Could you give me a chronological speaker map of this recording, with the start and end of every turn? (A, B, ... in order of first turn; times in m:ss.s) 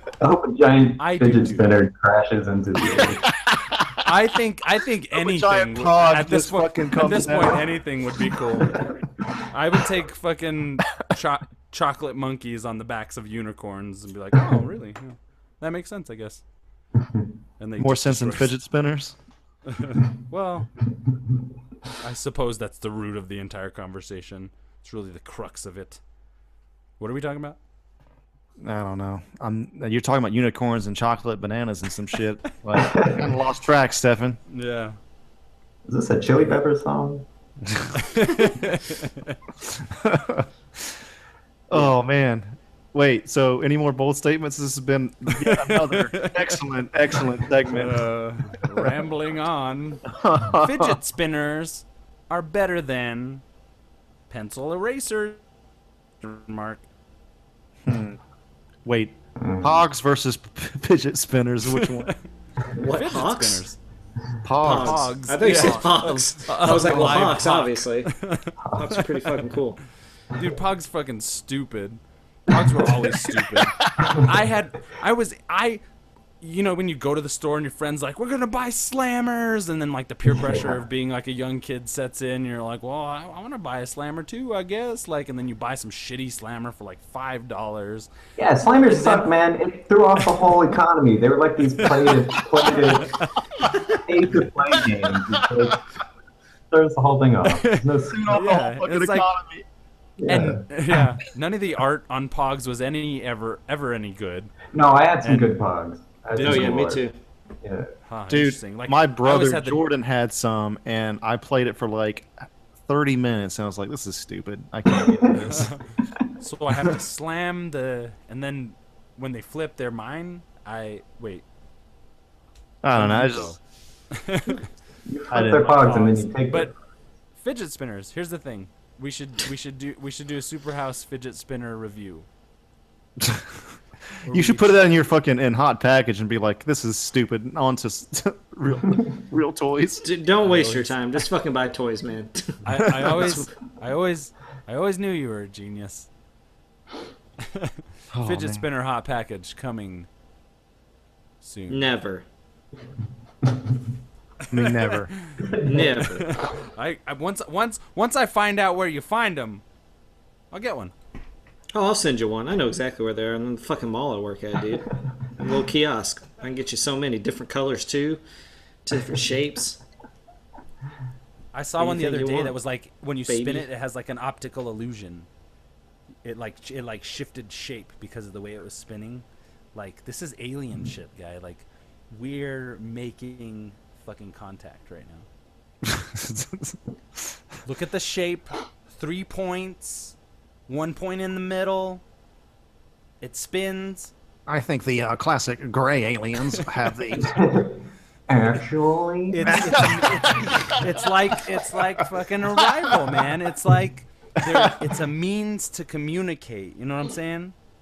0:00.2-0:03.3 A
0:01.0-0:01.8 B
0:03.4-0:04.1 C
0:04.0-0:08.8 B
0:05.1-0:07.6 C
0:09.5-0:16.4 B
0:17.6-0:18.5 B
0:17.8-0:19.1 C
0:19.6-0:20.7 B
0:22.0-0:26.0 B
0:27.0-0:27.6 B
0:28.6-0:34.4 C
0:32.7-0:33.3 A
0:34.5-0:35.0 B
0:35.9-0:37.2 A
0:38.0-0:39.4 B
0:39.7-0:40.9 C
0:41.7-0:48.0 C
0:45.3-0:46.6 B
0:47.7-0:53.4 B
0:50.1-0:51.0 C
0:54.3-0:55.4 B
0:56.2-0:56.8 B
0:57.8-0:58.2 C
0:58.8-1:02.1 C
0:59.4-0:59.8 A
1:01.8-1:02.1 B
1:02.8-1:03.6 D
1:02.8-1:03.8 B
1:04.4-1:05.7 C
1:04.6-1:08.1 D
1:04.6-1:08.6 B
1:08.7-1:09.8 D
1:10.3-1:15.8 B
1:13.3-1:13.7 C
1:16.4-1:28.1 B
1:20.3-1:20.7 A
1:28.4-1:33.2 A
1:28.9-1:29.3 B
1:31.8-1:32.2 B
1:33.9-1:35.8 A
1:36.7-1:38.3 A
1:37.4-1:39.3 B
1:38.1-1:39.6 C
1:40.2-1:40.6 A
1:40.3-1:44.6 B
1:44.7-1:47.0 A
1:45.2-1:45.5 B
1:46.3-1:46.9 B
1:46.3-1:47.1 D
1:47.6-1:47.9 A
1:48.1-1:49.8 B
1:48.3-1:52.3 C
1:52.9-1:55.7 C
1:55.0-1:55.5 A
1:55.3-1:55.8 B
1:56.4-2:01.4 B
2:02.8-2:03.6 C
2:02.9-2:03.6 B
2:04.1-2:04.6 B
2:05.1-2:06.7 A
2:05.3-2:05.8 C
2:05.6-2:06.7 B
2:07.4-2:12.2 B
2:13.2-2:13.5 C
2:14.2-2:14.7 B
2:14.2-2:20.0 C
2:20.0-2:23.4 D
2:22.6-2:26.1 B
2:27.4-2:30.1 B
2:28.1-2:28.6 C
2:31.4-2:31.9 B
2:31.7-2:32.2 D
2:34.5-2:35.1 C
2:34.5-2:35.4 B
2:35.4-2:36.0 A
2:35.6-2:36.3 D
2:36.1-2:39.6 B
2:40.5-2:40.9 B
2:41.7-2:44.8 D
2:45.4-2:48.2 D
2:48.8-2:49.8 D
2:51.5-2:55.3 B
2:51.8-2:52.6 D
2:53.3-2:53.7 D
2:56.2-3:05.2 B
3:05.8-3:07.3 C
3:07.6-3:10.1 B
3:10.7-3:12.0 B
3:13.2-3:14.1 B
3:14.5-3:17.4 C
3:17.2-3:17.8 A
3:18.3-3:19.9 A
3:19.3-3:27.5 B
3:19.4-3:22.0 C
3:22.6-3:22.9 C
3:24.4-3:24.7 C